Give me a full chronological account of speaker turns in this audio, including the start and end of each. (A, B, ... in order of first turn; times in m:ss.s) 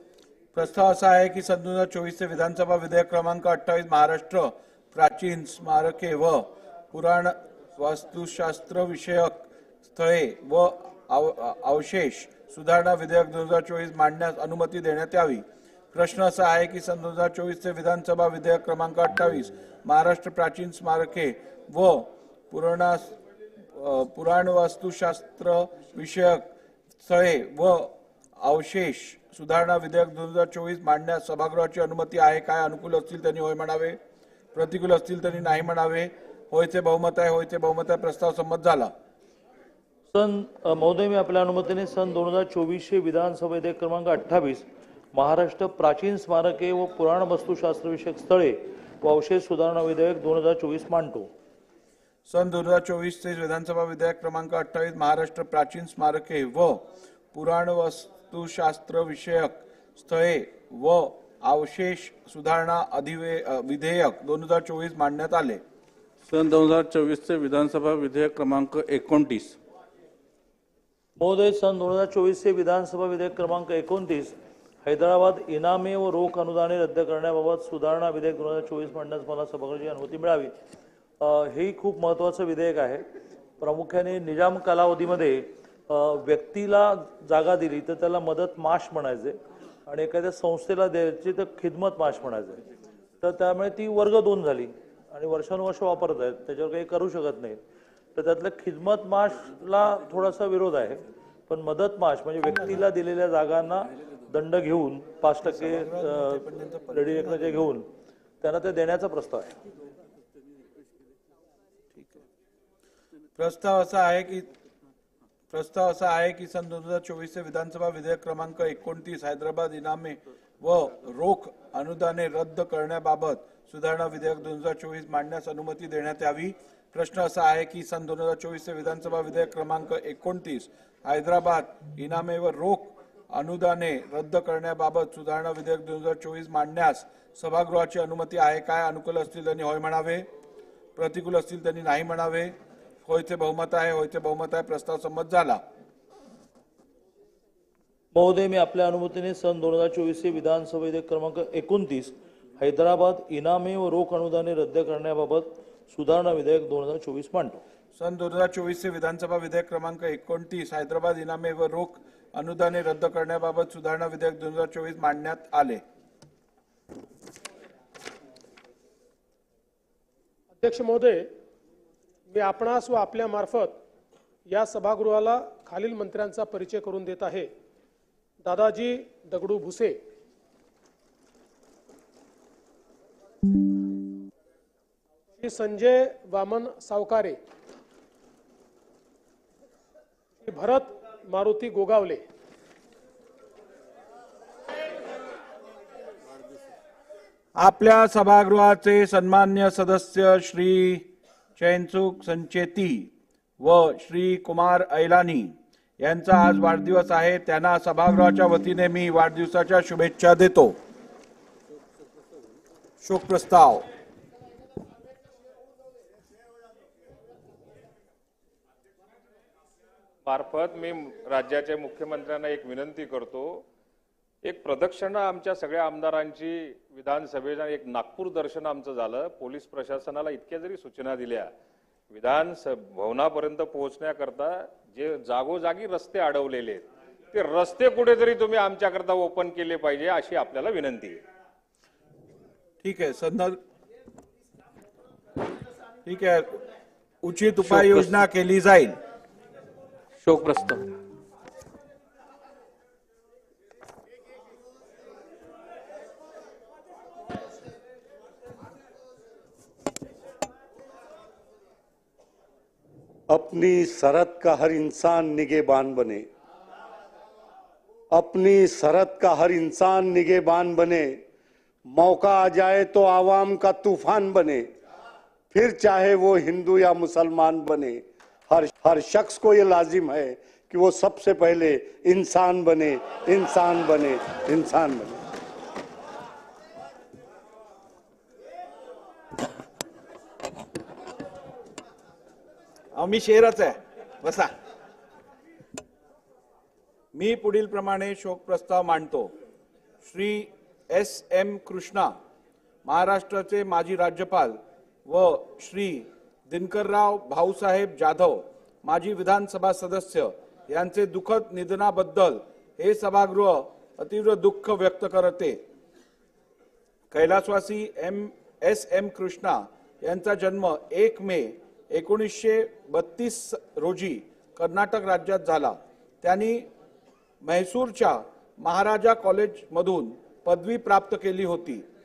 0:00.5-0:23.2 A
0:23.7-0:26.5 A
0:27.0-0:34.0 A
0:34.5-0:38.9 A
0:40.1-0:51.3 B
0:52.3-1:05.6 A
1:06.2-1:09.6 C
1:11.2-1:20.5 B
1:21.2-1:23.0 B
1:23.6-1:32.6 B
1:33.2-1:37.6 B
1:38.1-1:47.9 B
1:45.4-1:47.5 A
1:48.4-1:49.6 B
1:53.4-1:54.5 A
1:55.5-2:20.3 A
2:21.0-2:25.6 A
2:28.1-2:37.6 B
2:37.9-2:45.8 A
2:50.6-2:51.3 D
2:52.3-2:53.8 D
2:54.5-2:57.5 D
2:58.4-3:00.0 D
3:05.4-3:07.4 D
3:10.4-3:12.2 D
3:17.6-3:30.8 A
3:33.0-3:33.8 A
3:40.2-3:43.6 E
3:44.4-3:51.5 E
3:52.1-4:01.2 E
4:02.8-4:03.6 A
4:06.0-4:06.5 A
4:07.2-4:09.0 A
4:07.7-4:08.1 C
4:10.2-4:10.9 C
4:23.3-4:26.3 F
4:28.1-4:31.2 F
4:31.9-4:34.6 F
4:35.5-4:45.2 F
4:52.9-4:54.5 A
4:57.1-4:59.3 A
5:00.0-5:02.1 A
5:02.8-5:15.6 A
5:17.1-5:26.7 A
5:27.4-5:31.8 A